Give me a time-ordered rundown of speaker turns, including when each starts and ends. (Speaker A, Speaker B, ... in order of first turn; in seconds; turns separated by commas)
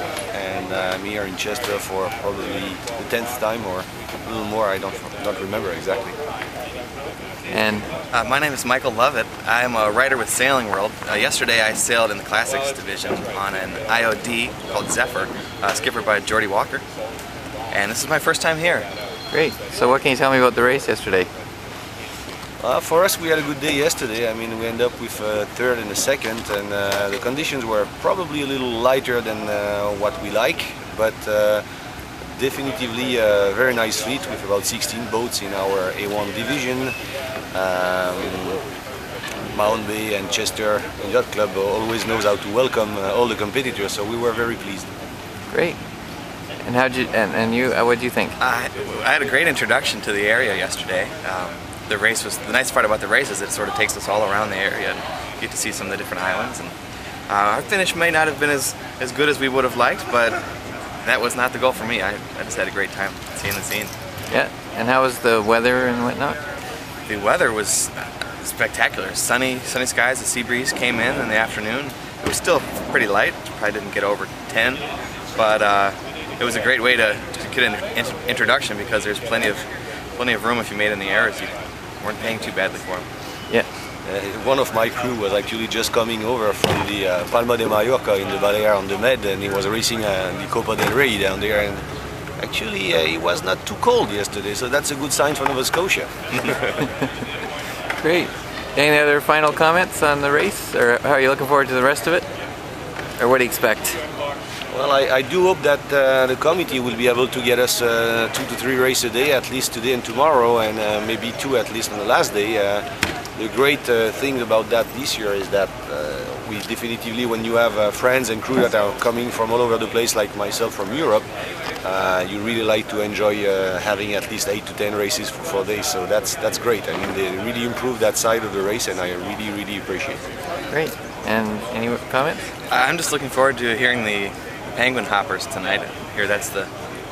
Speaker A: 0.3-6.2, Speaker B: 7.5-7.9, Speaker C: 8.1-16.8, Speaker C: 17.7-18.9, Speaker B: 19.3-21.3, Speaker A: 22.6-31.6, Speaker A: 32.3-36.9, Speaker A: 37.5-38.6, Speaker A: 39.5-44.9, Speaker B: 45.5-45.8, Speaker B: 46.6-48.4, Speaker C: 48.4-56.7, Speaker C: 57.3-60.4, Speaker C: 61.0-63.9, Speaker B: 64.3-66.4, Speaker C: 67.1-74.8, Speaker C: 75.3-79.7, Speaker C: 80.2-83.1, Speaker A: 84.0-91.8, Speaker A: 92.4-96.5, Speaker B: 98.0-102.3, Speaker B: 103.2-104.0, Speaker A: 104.7-112.8, Speaker A: 113.4-121.2, Speaker A: 121.8-130.2, Speaker B: 130.7-132.5, Speaker C: 132.7-136.7